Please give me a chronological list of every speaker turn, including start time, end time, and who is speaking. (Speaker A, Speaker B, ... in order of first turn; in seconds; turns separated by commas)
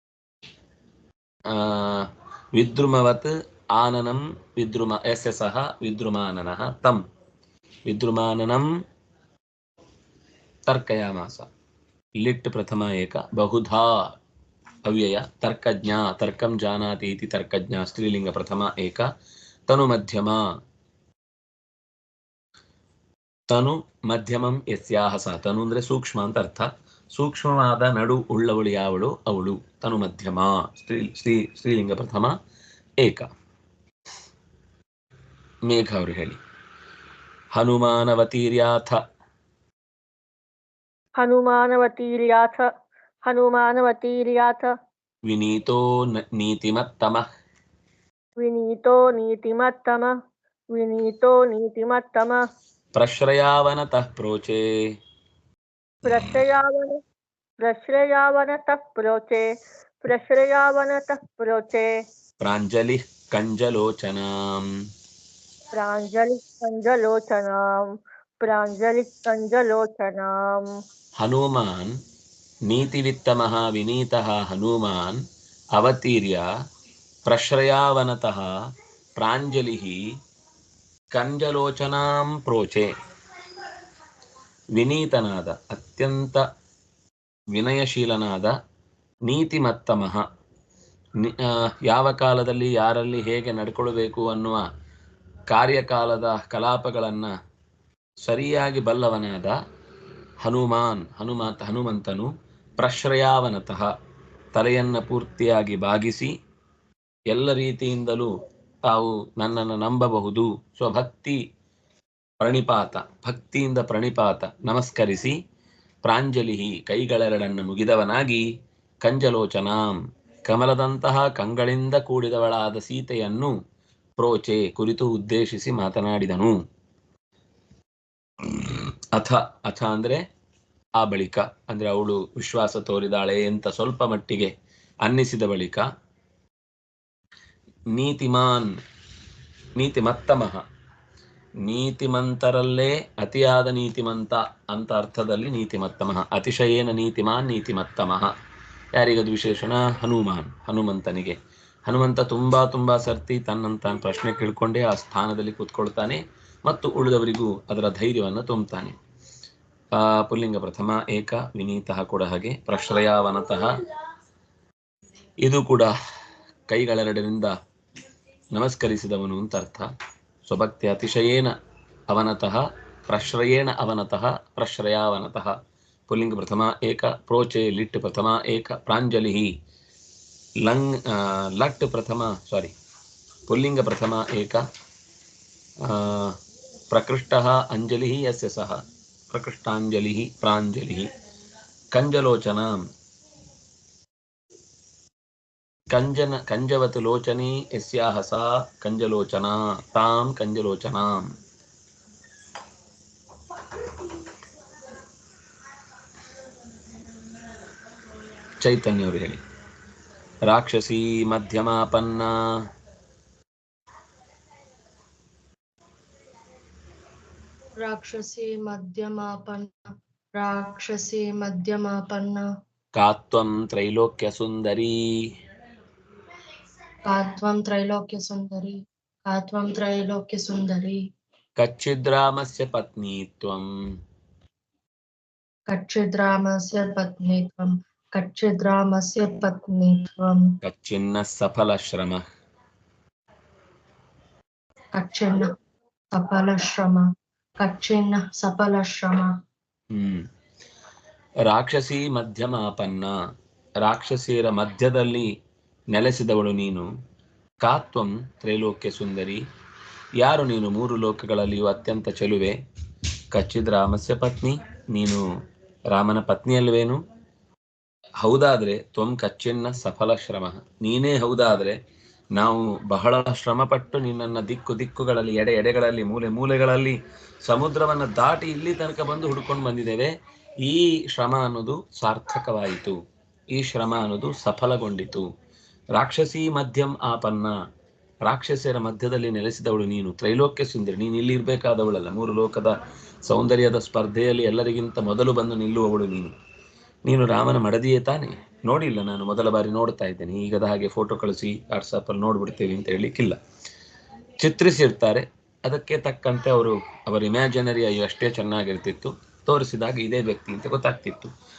Speaker A: 1.5-7.0, Speaker A: 7.9-8.7, Speaker A: 10.7-11.5, Speaker A: 12.2-14.1, Speaker A: 14.8-19.1, Speaker A: 19.7-20.4, Speaker A: 23.5-32.3, Speaker A: 33.0-33.3, Speaker A: 35.7-36.4, Speaker A: 37.5-39.0, Speaker B: 41.2-42.7, Speaker B: 43.2-44.7, Speaker A: 45.3-47.2, Speaker B: 48.4-50.2, Speaker B: 50.7-52.4, Speaker A: 53.0-54.9, Speaker B: 56.0-57.0, Speaker B: 57.6-59.5, Speaker B: 60.0-62.0, Speaker A: 62.4-64.8, Speaker B: 65.7-70.8, Speaker A: 71.2-72.0, Speaker A: 72.7-75.2, Speaker A: 75.8-76.5, Speaker A: 77.3-78.6, Speaker A: 79.2-80.0, Speaker A: 81.1-82.9, Speaker A: 84.7-86.4, Speaker A: 87.5-88.5, Speaker A: 89.3-90.2, Speaker A: 91.2-94.6, Speaker A: 95.5-97.3, Speaker A: 98.2-99.6, Speaker A: 100.4-103.9, Speaker A: 104.5-106.3, Speaker A: 107.3-108.3, Speaker A: 108.9-111.4, Speaker A: 112.4-115.3, Speaker A: 116.0-118.5, Speaker A: 119.0-123.5, Speaker A: 124.2-126.6, Speaker A: 128.4-130.2, Speaker A: 131.0-134.5, Speaker A: 135.0-135.9, Speaker A: 137.9-138.7, Speaker A: 139.8-140.6, Speaker A: 141.6-148.3, Speaker A: 148.9-158.9, Speaker A: 159.9-163.7, Speaker A: 165.4-165.9, Speaker A: 166.7-167.5, Speaker A: 168.5-169.9, Speaker A: 170.5-171.5, Speaker A: 172.1-175.6, Speaker A: 176.1-179.5, Speaker A: 180.6-182.7, Speaker A: 183.5-184.6, Speaker A: 185.8-186.3, Speaker A: 186.9-191.1, Speaker A: 191.9-192.8, Speaker A: 195.9-201.3, Speaker A: 208.6-209.4, Speaker A: 210.5-212.3, Speaker C: 217.8-219.8, Speaker C: 220.4-222.4, Speaker A: 222.9-225.0, Speaker C: 227.1-228.8, Speaker C: 229.3-231.0, Speaker A: 231.6-233.7, Speaker C: 235.7-240.5, Speaker A: 240.6-242.2, Speaker C: 244.9-245.5, Speaker C: 246.1-247.1, Speaker C: 247.6-249.3, Speaker A: 249.9-250.2, Speaker A: 251.5-253.1, Speaker A: 253.8-255.3, Speaker A: 255.9-256.9, Speaker A: 257.6-259.4, Speaker A: 260.2-262.6, Speaker A: 263.3-265.2, Speaker A: 265.9-267.0, Speaker A: 268.2-271.8, Speaker A: 272.3-283.0, Speaker A: 283.5-285.3, Speaker A: 285.9-287.6, Speaker A: 288.2-296.3, Speaker A: 297.1-303.4, Speaker A: 304.4-311.3